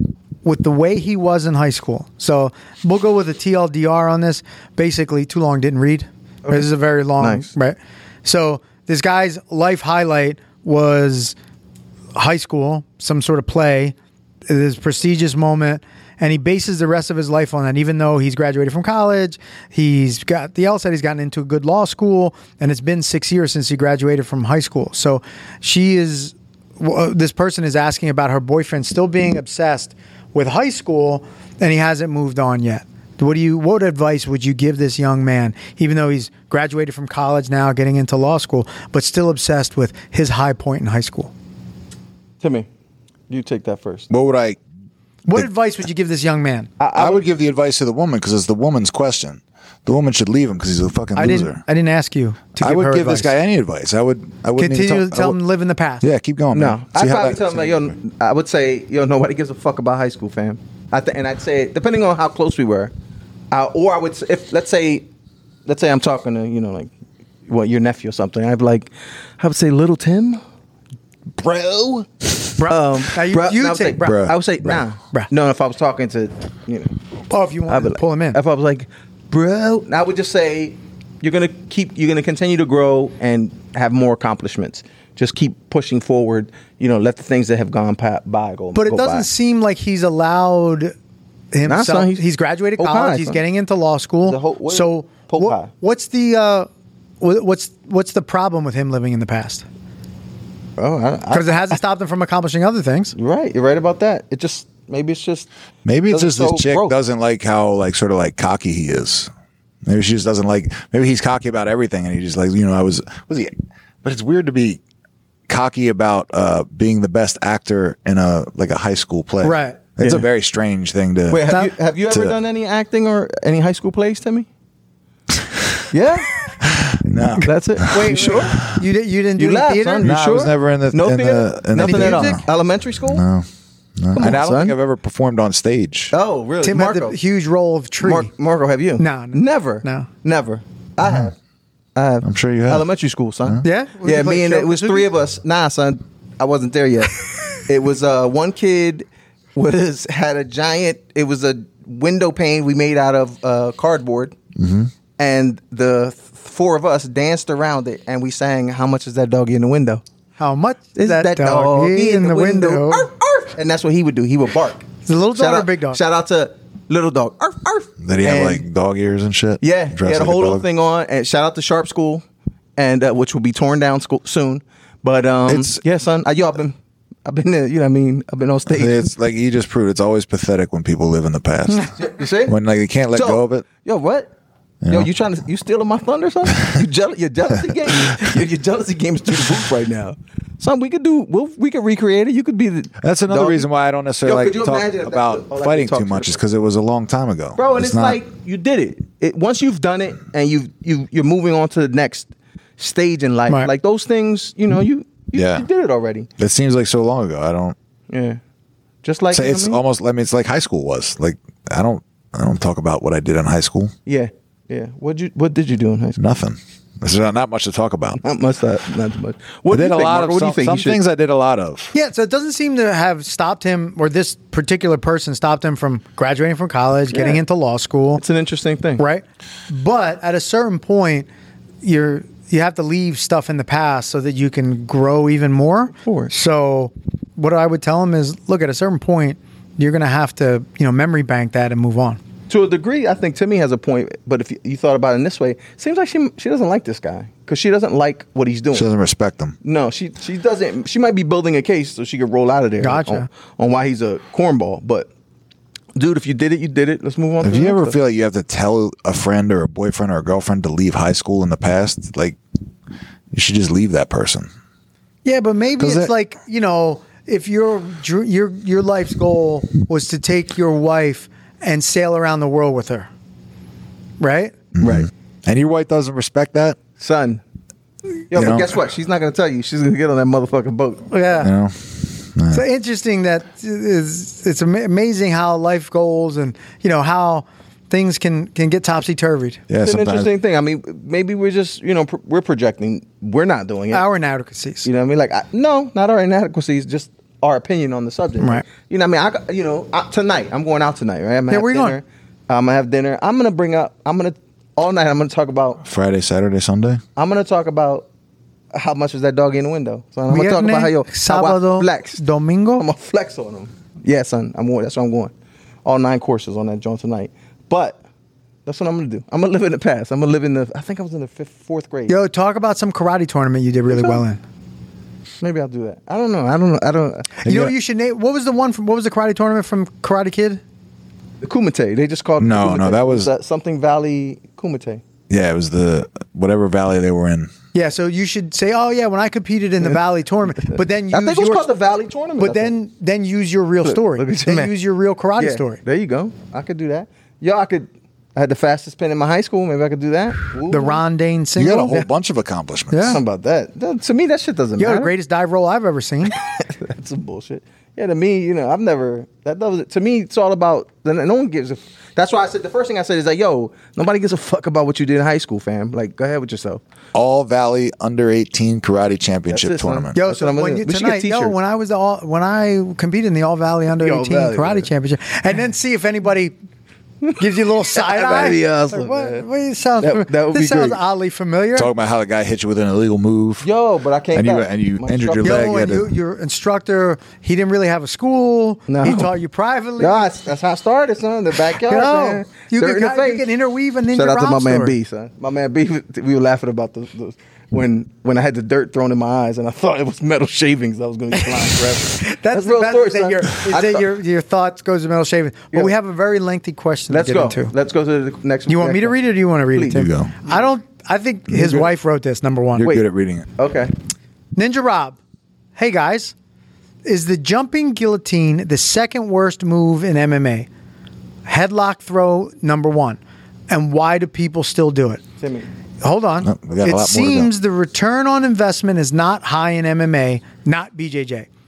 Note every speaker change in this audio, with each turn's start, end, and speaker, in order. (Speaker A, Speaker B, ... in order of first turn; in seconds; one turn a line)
Speaker A: 0.4-11.3
Speaker B: 6.4-7.5
Speaker A: 12.1-13.9
Speaker A: 14.5-41.3
Speaker B: 42.4-42.7
Speaker B: 43.3-44.1
Speaker C: 44.1-44.6
Speaker A: 45.2-46.7
Speaker B: 46.8-47.2
Speaker C: 46.9-51.6
Speaker A: 51.1-53.3
Speaker C: 52.6-55.4
Speaker A: 54.6-56.1
Speaker C: 56.0-57.9
Speaker B: 56.5-62.9
Speaker B: 63.5-65.0
Speaker B: 65.7-66.9
Speaker B: 67.5-70.4
Speaker B: 71.4-72.1
Speaker A: 72.6-74.2
Speaker B: 72.7-76.9
Speaker C: 74.0-74.8
Speaker A: 77.3-78.4
Speaker B: 77.7-89.3
Speaker A: 88.7-90.9
Speaker A: 91.5-96.7
Speaker B: 91.7-92.2
Speaker B: 92.8-93.4
Speaker B: 94.2-95.7
Speaker A: 97.2-99.6
Speaker B: 100.8-101.8
Speaker A: 101.3-103.1
Speaker B: 103.2-105.5
Speaker C: 105.8-109.3
Speaker B: 106.1-106.9
Speaker C: 109.8-114.8
Speaker C: 115.5-121.5
Speaker A: 119.4-119.8
Speaker B: 120.0-120.2
Speaker B: 121.3-124.5
Speaker C: 122.1-122.3
Speaker B: 125.9-126.3
Speaker C: 126.6-127.8
Speaker A: 127.4-130.1
Speaker B: 127.4-128.6
Speaker B: 129.4-133.2
Speaker C: 130.0-132.4
Speaker A: 131.8-132.4
Speaker C: 133.1-133.4
Speaker C: 134.0-136.1
Speaker B: 134.1-134.7
Speaker B: 136.1-137.2
Speaker A: 136.6-138.3
Speaker B: 138.0-141.3
Speaker A: 139.0-140.1
Speaker B: 141.9-154.3
Speaker C: 142.2-142.8
Speaker A: 143.6-145.1
Speaker C: 154.6-154.9
Speaker B: 155.2-160.0
Speaker A: 160.4-163.1
Speaker B: 160.9-168.6
Speaker A: 165.1-166.0
Speaker C: 168.0-170.6
Speaker B: 169.6-172.2
Speaker B: 172.8-176.7
Speaker C: 175.5-175.8
Speaker B: 177.2-179.1
Speaker C: 178.7-183.6
Speaker B: 181.7-182.6
Speaker B: 183.1-184.3
Speaker C: 184.8-185.1
Speaker B: 184.9-193.6
Speaker C: 193.0-198.2
Speaker B: 194.2-196.4
Speaker B: 197.6-206.3
Speaker C: 205.3-205.7
Speaker C: 206.4-207.7
Speaker B: 208.1-208.4
Speaker B: 209.0-209.8
Speaker C: 209.3-213.9
Speaker B: 214.1-216.2
Speaker C: 216.2-218.2
Speaker B: 218.2-221.0
Speaker C: 219.7-221.9
Speaker A: 221.9-228.2
Speaker B: 227.1-227.4
Speaker B: 228.2-229.0
Speaker A: 229.0-231.3
Speaker A: 231.8-242.2
Speaker B: 235.9-236.3
Speaker B: 242.5-248.9
Speaker C: 248.7-249.6
Speaker B: 249.6-255.1
Speaker A: 252.8-253.2
Speaker B: 255.9-257.9
Speaker C: 257.4-262.4
Speaker C: 263.3-264.5
Speaker A: 265.2-273.1
Speaker C: 265.8-266.1
Speaker A: 274.2-274.5
Speaker C: 274.8-276.8
Speaker B: 274.8-275.1
Speaker B: 277.0-277.4
Speaker B: 278.3-281.1
Speaker C: 278.3-278.7
Speaker A: 281.1-281.5
Speaker C: 281.4-282.6
Speaker A: 282.5-289.6
Speaker C: 289.7-290.3
Speaker B: 289.8-294.0
Speaker A: 293.9-294.9
Speaker B: 294.8-305.8
Speaker A: 301.5-302.0
Speaker C: 305.8-307.0
Speaker B: 307.1-308.1
Speaker B: 308.7-312.2
Speaker A: 310.3-312.8
Speaker B: 312.8-315.3
Speaker B: 315.8-318.0
Speaker B: 318.6-322.1
Speaker A: 322.1-324.4
Speaker B: 323.9-324.2
Speaker B: 325.4-327.4
Speaker A: 327.4-330.6
Speaker C: 327.4-327.7
Speaker B: 331.4-335.0
Speaker C: 332.4-333.3
Speaker C: 335.3-337.5
Speaker A: 337.7-341.6
Speaker B: 340.6-342.7
Speaker A: 342.4-345.8
Speaker B: 343.8-344.7
Speaker B: 345.4-351.0
Speaker A: 350.7-352.1
Speaker C: 351.6-353.2
Speaker A: 352.9-353.2
Speaker B: 353.0-355.1
Speaker A: 354.8-356.4
Speaker B: 356.3-366.8
Speaker C: 367.1-370.1
Speaker B: 369.5-371.5
Speaker A: 370.1-376.5
Speaker B: 374.0-374.9
Speaker B: 377.2-379.4
Speaker A: 377.4-381.9
Speaker B: 380.0-381.0
Speaker C: 381.7-383.7
Speaker B: 383.6-385.7
Speaker C: 384.3-386.1
Speaker A: 385.4-390.2
Speaker B: 388.9-389.3
Speaker B: 390.0-393.5
Speaker A: 391.8-394.9
Speaker B: 394.1-404.0
Speaker A: 401.4-407.7
Speaker B: 407.1-409.1
Speaker A: 408.7-412.9
Speaker B: 409.7-410.0
Speaker C: 409.9-410.3
Speaker C: 411.5-411.9
Speaker C: 412.8-413.5
Speaker B: 413.6-413.9
Speaker A: 414.6-415.2
Speaker A: 415.8-416.3
Speaker A: 417.0-420.7
Speaker A: 421.5-425.2
Speaker B: 425.4-425.6
Speaker A: 426.0-431.5
Speaker C: 426.4-427.5